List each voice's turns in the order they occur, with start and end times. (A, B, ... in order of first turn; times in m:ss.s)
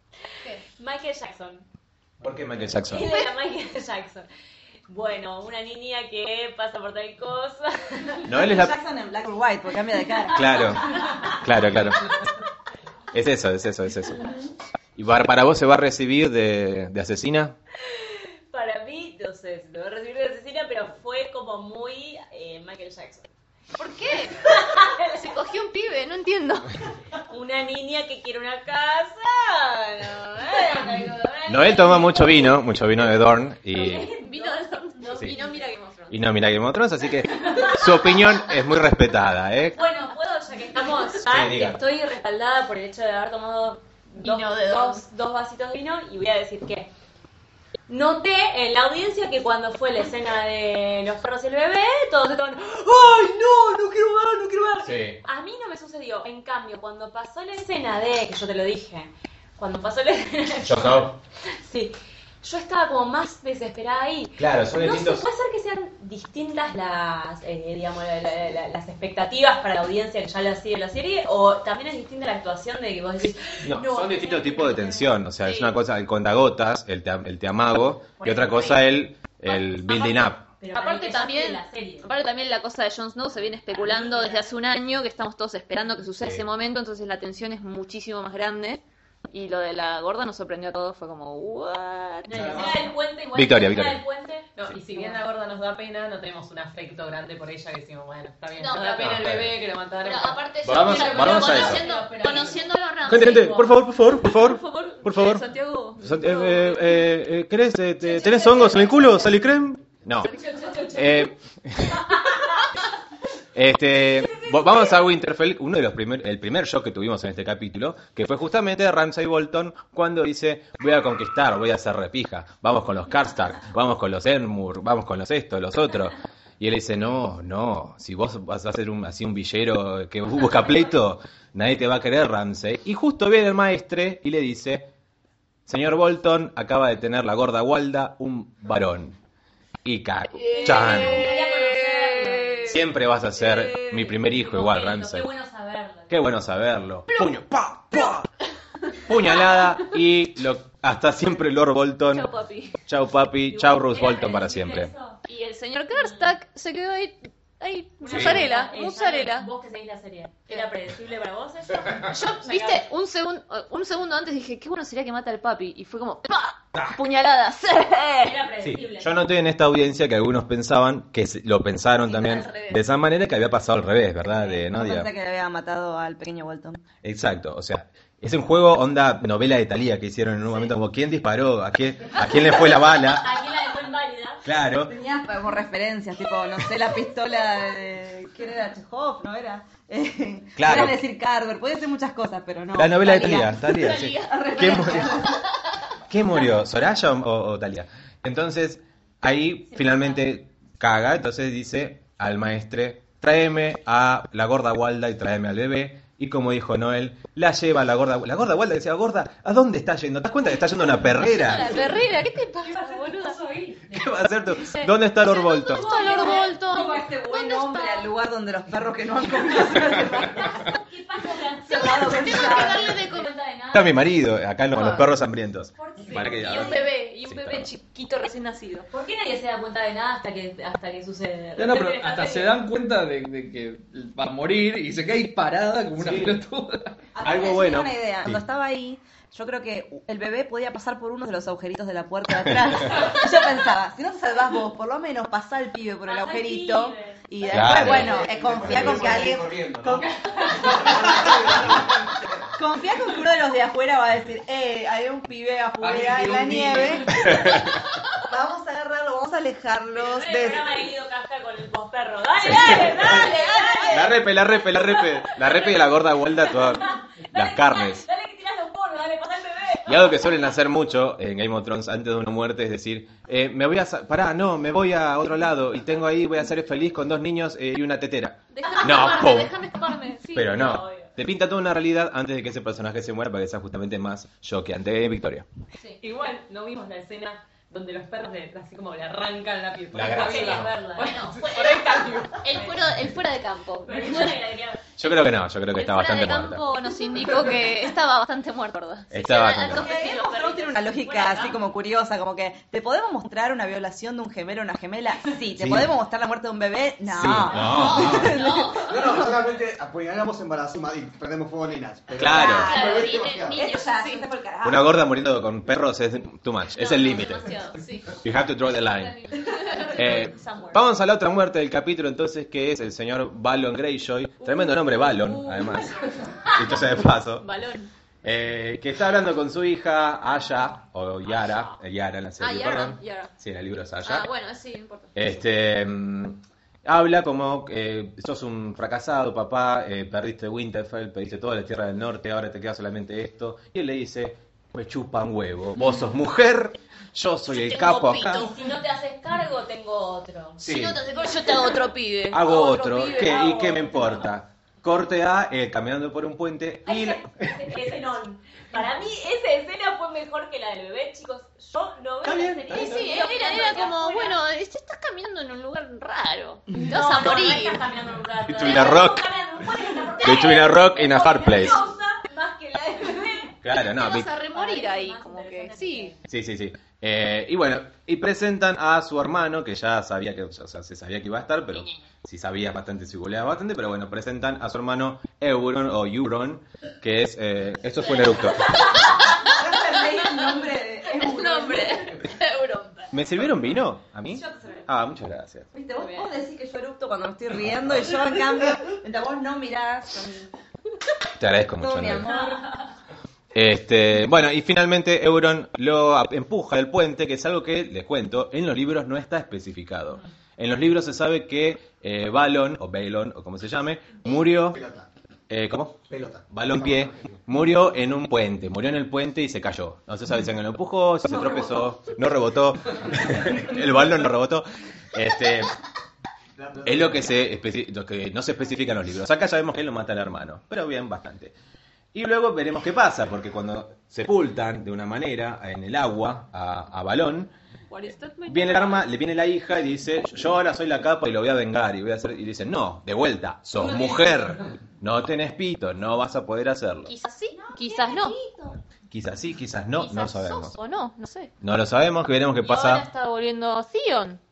0:00.7-0:01.7 A
0:02.2-0:03.1 B
0:02.9-0:04.3 A
0:02.9-0:03.3 C
0:04.9-0:08.3 A
0:08.2-0:08.8 B
0:08.3-0:10.7 D
0:10.3-0:12.1 B
0:13.1-0:14.2 B
0:15.0-0:17.6 B
0:17.9-0:23.3 A
0:23.8-0:26.7 C
0:24.4-0:25.1 A
0:27.2-0:33.0 A
0:31.5-0:34.1 B
0:33.7-0:35.7 A
0:34.0-0:36.3 C
0:36.1-0:39.8 B
0:37.4-0:37.9 A
0:39.8-0:46.9 A
0:41.2-0:41.8 B
0:44.2-0:45.0 C
0:47.9-1:15.1 A
0:54.8-0:55.2 B
1:00.6-1:01.2 B
1:04.4-1:05.3 B
1:13.6-1:20.5 B
1:15.4-1:15.8 C
1:18.2-1:18.8 A
1:19.5-1:22.1 A
1:20.8-1:32.9 C
1:23.7-1:24.4 A
1:26.2-1:26.5 B
1:32.3-1:35.2 A
1:32.3-1:32.7 E
1:33.3-1:34.0 B
1:34.6-1:42.6 F
1:38.5-1:39.4 C
1:39.0-1:39.6 B
1:40.0-1:47.1 C
1:40.6-1:41.9 B
1:43.0-1:45.4 B
1:46.0-1:50.4 B
1:48.0-1:49.1 C
1:50.2-1:51.2 C
1:50.3-1:51.3 A
1:50.9-1:52.2 B
1:53.6-2:14.9 B
1:54.3-1:54.9 A
2:15.7-2:19.2 B
2:19.8-2:21.3 B
2:20.4-2:22.8 C
2:20.4-2:22.8 A
2:22.7-2:25.3 B
2:23.4-2:24.1 C
2:24.0-2:26.3 A
2:26.1-2:28.3 B
2:29.0-2:32.3 B
2:32.1-2:32.8 C
2:32.8-2:34.9 B
2:33.5-2:35.2 A
2:35.2-2:39.5 C
2:35.9-2:36.3 A
2:38.0-2:42.9 A
2:38.1-2:38.4 B
2:42.1-2:48.4 C
2:48.2-2:49.1 A
2:48.6-2:55.1 B
2:52.0-2:52.8 C
2:54.6-2:56.8 D
2:57.0-3:03.3 B
3:03.1-3:04.4 A
3:04.4-3:04.9 B
3:04.8-3:15.4 D
3:10.6-3:11.0 B
3:12.8-3:15.4 B
3:13.6-3:15.3 C
3:16.1-3:31.8 B
3:19.7-3:20.3 A
3:31.2-3:33.4 C
3:32.6-3:34.0 F
3:33.9-3:35.9 B
3:34.5-3:38.1 C
3:35.7-3:36.6 A
3:36.1-3:40.8 D
3:40.2-3:44.0 A
3:41.6-3:43.0 D
3:42.2-3:43.4 C
3:43.7-3:47.7 B
3:44.7-3:45.1 C
3:45.8-3:46.8 A
3:46.1-3:48.9 C
3:48.9-3:52.6 A
3:51.6-3:57.0 G
3:56.0-3:56.4 B
3:57.1-4:10.1 D
3:57.2-3:58.4 B
4:06.1-4:07.2 A
4:07.4-4:09.2 B
4:07.6-4:12.0 E
4:10.0-4:11.3 F
4:10.8-4:11.5 D
4:12.6-4:20.8 D
4:15.8-4:17.4 G
4:17.2-4:17.8 B
4:20.0-4:24.1 A
4:22.5-4:23.2 B
4:22.6-4:24.2 D
4:23.9-4:28.0 B
4:24.9-4:30.3 A
4:29.9-4:39.6 B
4:38.5-4:40.8 C
4:38.7-4:39.4 A
4:40.4-4:45.5 B
4:40.4-4:41.1 A
4:46.0-4:52.8 F
4:49.9-4:50.8 B
4:50.2-4:51.6 A
4:50.2-4:54.4 C
4:53.9-4:54.8 A
4:55.0-4:56.6 B
4:55.7-5:01.3 C
4:59.1-4:59.9 B
4:59.7-5:09.2 D
5:01.0-5:01.6 A
5:05.6-5:05.9 B
5:07.1-5:08.4 B
5:07.5-5:09.2 C
5:08.8-5:13.6 E
5:12.2-5:12.8 B
5:12.3-5:15.0 D
5:12.4-5:14.3 C
5:14.6-5:17.6 B
5:16.7-5:18.2 C
5:18.2-5:27.5 B
5:18.9-5:20.8 C
5:24.4-5:27.9 C
5:28.2-5:34.3 B
5:32.4-5:33.3 C
5:34.0-5:35.2 C
5:35.2-5:48.5 B
5:47.5-5:48.6 C
5:48.3-5:50.6 A
5:50.6-5:51.0 B
5:50.6-5:53.8 C
5:52.3-5:57.6 B
5:53.0-5:54.3 A
5:56.8-6:04.4 A
6:02.2-6:03.3 B
6:02.7-6:07.8 C
6:06.8-6:13.6 A
6:08.4-6:09.2 B
6:10.2-6:11.9 B
6:13.6-6:14.3 B
6:13.8-6:16.1 C
6:14.5-6:16.2 A
6:16.3-6:29.0 B
6:21.7-6:22.0 C
6:29.3-6:32.2 D
6:31.1-6:33.2 C
6:33.1-6:35.7 B
6:34.3-6:34.9 D
6:35.7-6:40.5 D
6:36.0-6:36.3 C
6:41.4-6:42.4 B
6:41.7-6:42.6 D
6:43.5-6:54.8 B
6:54.7-6:55.1 E
6:55.5-7:05.7 B
6:56.1-6:57.4 E
7:06.6-7:07.4 E
7:06.8-7:11.6 B
7:12.1-7:17.5 B
7:17.9-7:19.1 C
7:18.5-7:27.1 B
7:27.1-7:28.4 C
7:27.5-7:28.8 D
7:29.1-7:30.8 B
7:30.0-7:31.5 C
7:31.6-7:33.1 B
7:32.6-7:34.4 C